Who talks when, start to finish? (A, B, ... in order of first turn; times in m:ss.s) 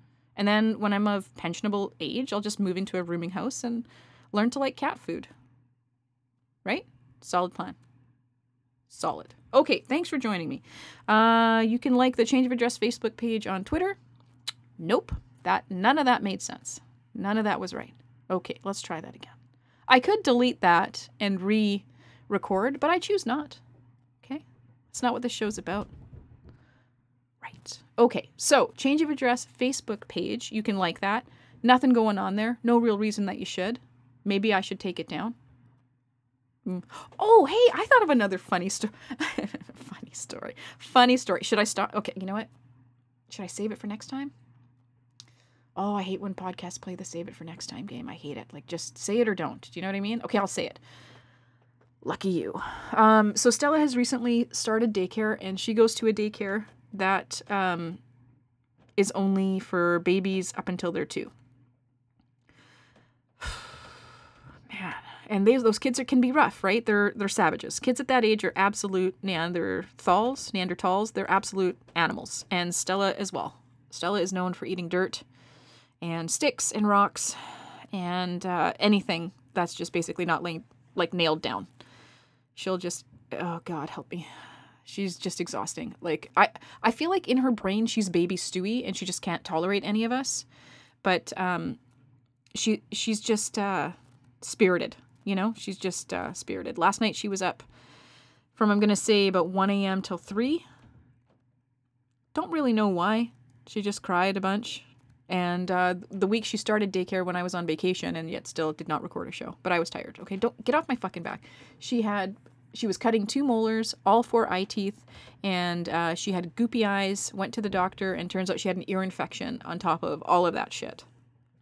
0:00.4-0:05.3 A
0:06.6-0:07.8 A
0:08.9-0:14.0 A
0:14.8-0:19.4 A
0:19.9-0:23.6 A
0:24.2-0:25.9 A
0:27.4-0:35.4 A
0:36.6-0:42.5 A
0:43.3-0:44.3 A
0:45.8-0:50.8 A
0:52.0-0:58.0 A
0:59.0-1:01.3 A
1:03.4-1:03.8 A
1:04.7-1:15.2 A
1:16.0-1:21.7 A
1:22.5-1:24.3 A
1:24.8-1:30.4 A
1:31.0-1:31.8 A
1:32.5-1:37.6 A
1:38.5-1:40.6 A
1:42.3-2:01.0 A